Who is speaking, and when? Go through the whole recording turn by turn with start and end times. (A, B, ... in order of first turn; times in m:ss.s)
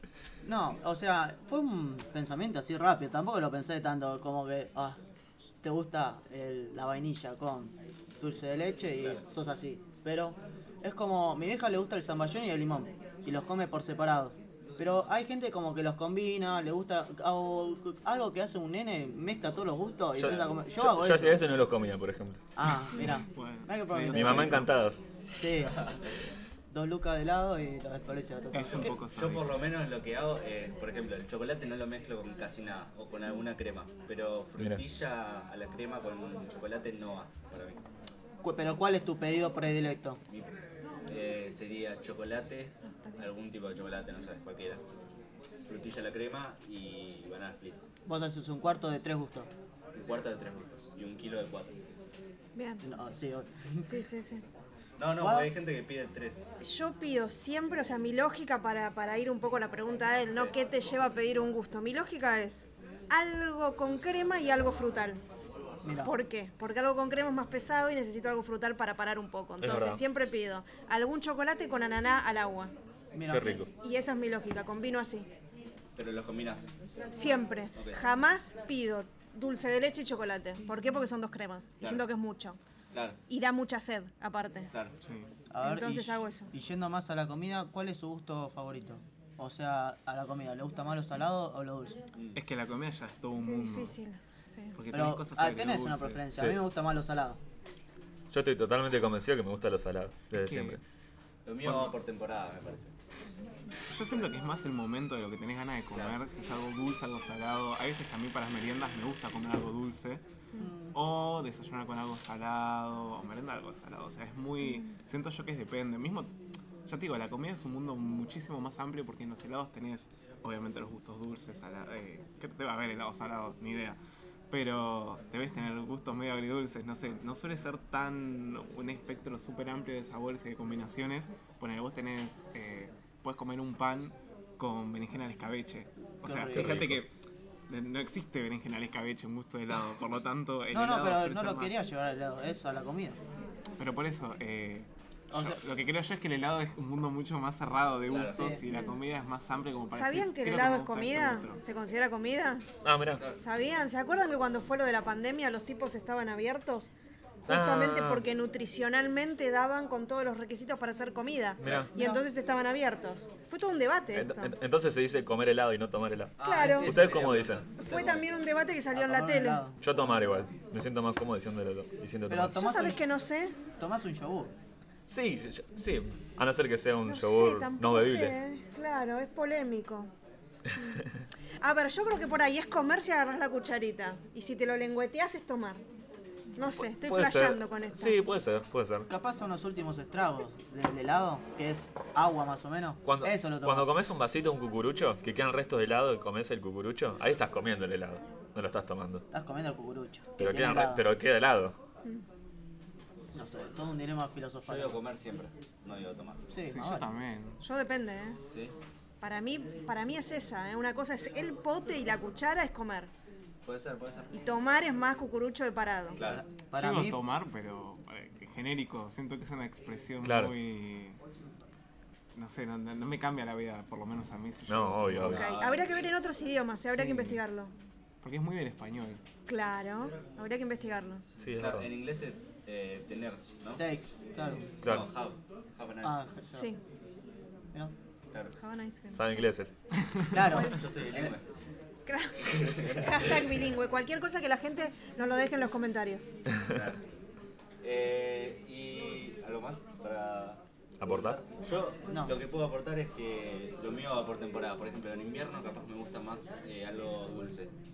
0:00.4-0:21.4 A
0:20.2-0:22.4 B
0:22.6-0:24.7 A
0:22.9-0:24.7 C
0:24.1-0:25.0 B
0:25.4-0:25.9 A
0:26.7-0:29.0 A
0:28.5-0:29.5 C
0:28.9-0:37.8 D
0:38.4-0:40.2 A
0:40.3-0:40.5 D
0:41.1-0:44.8 D
0:45.7-0:47.9 D
0:48.1-0:49.5 A
0:49.9-0:51.8 D
0:52.6-0:52.8 E
0:52.8-0:54.0 A
0:53.8-0:54.4 E
0:55.0-0:56.5 D
0:55.2-0:55.5 A
0:56.6-1:05.2 E
1:00.3-1:00.5 D
1:05.8-1:06.2 A
1:06.0-1:12.7 E
1:09.6-1:10.0 B
1:13.1-1:13.6 A
1:13.3-1:13.7 B
1:13.7-1:15.3 E
1:16.0-1:16.7 D
1:17.1-1:22.6 E
1:17.8-1:18.0 D
1:21.8-1:22.0 D
1:22.9-1:23.2 D
1:23.3-1:24.7 E
1:25.0-1:25.3 C
1:25.5-1:32.0 A
1:25.6-1:26.5 E
1:32.3-1:34.0 C
1:33.4-1:34.8 E
1:34.8-1:36.2 C
1:34.9-1:37.4 A
1:36.3-1:36.6 B
1:38.3-1:40.8 B
1:40.3-1:40.8 C
1:41.4-1:42.9 D
1:43.9-1:50.2 C
1:50.6-1:50.9 A
1:50.9-1:56.3 C
1:56.9-2:04.0 C
2:04.5-2:17.1 C
2:16.2-2:16.9 A
2:16.5-2:17.0 B
2:17.7-2:21.8 C
2:20.7-2:23.2 A
2:23.8-2:31.6 C
2:25.3-2:25.6 A
2:28.1-2:28.5 D
2:28.3-2:28.6 A
2:29.9-2:32.7 E
2:32.8-2:33.2 B
2:33.2-2:33.4 D
2:33.4-2:36.9 E
2:37.5-2:44.5 E
2:37.5-2:38.2 B
2:41.6-2:42.0 B
2:41.6-2:41.9 D
2:42.0-2:42.2 A
2:44.1-2:47.7 B
2:46.4-2:48.4 D
2:46.4-2:47.0 E
2:47.8-2:49.6 E
2:48.9-2:49.8 A
2:49.8-2:52.6 B
2:52.3-2:53.0 A
2:52.5-2:53.5 E
2:53.8-2:54.5 A
2:55.1-2:58.4 B
2:57.0-3:00.1 E
3:00.7-3:01.2 B
3:01.6-3:05.8 E
3:06.6-3:08.3 E
3:06.6-3:09.1 B
3:09.1-3:13.9 A
3:13.0-3:19.2 B
3:19.3-3:21.0 A
3:20.4-3:21.8 B
3:23.3-3:25.0 A
3:24.6-3:26.5 D
3:26.5-3:27.1 A
3:26.6-3:27.6 C
3:27.6-3:28.4 E
3:28.5-3:28.7 D
3:29.2-3:33.1 E
3:33.6-3:34.3 D
3:34.3-3:36.2 E
3:36.1-3:36.4 D
3:36.2-3:37.2 A
3:36.8-3:41.2 C
3:40.2-3:40.5 B
3:42.3-3:45.4 C
3:44.7-3:45.5 B
3:45.2-3:46.1 D
3:45.3-3:47.7 E
3:48.2-3:49.2 C
3:49.5-3:51.2 E
3:51.4-3:51.9 B
3:51.6-3:53.8 D
3:53.8-3:54.7 A
3:54.7-3:56.2 D
3:54.8-3:55.1 B
3:56.0-3:56.7 A
3:56.5-3:56.8 E
3:58.6-3:59.4 E
3:59.1-3:59.7 B
4:00.0-4:00.3 C
4:00.3-4:01.3 A
4:00.4-4:01.4 D
4:00.4-4:00.8 E
4:02.0-4:06.3 E
4:02.4-4:03.6 D
4:06.6-4:07.0 D
4:07.8-4:17.7 D
4:11.0-4:11.4 B
4:12.1-4:12.4 A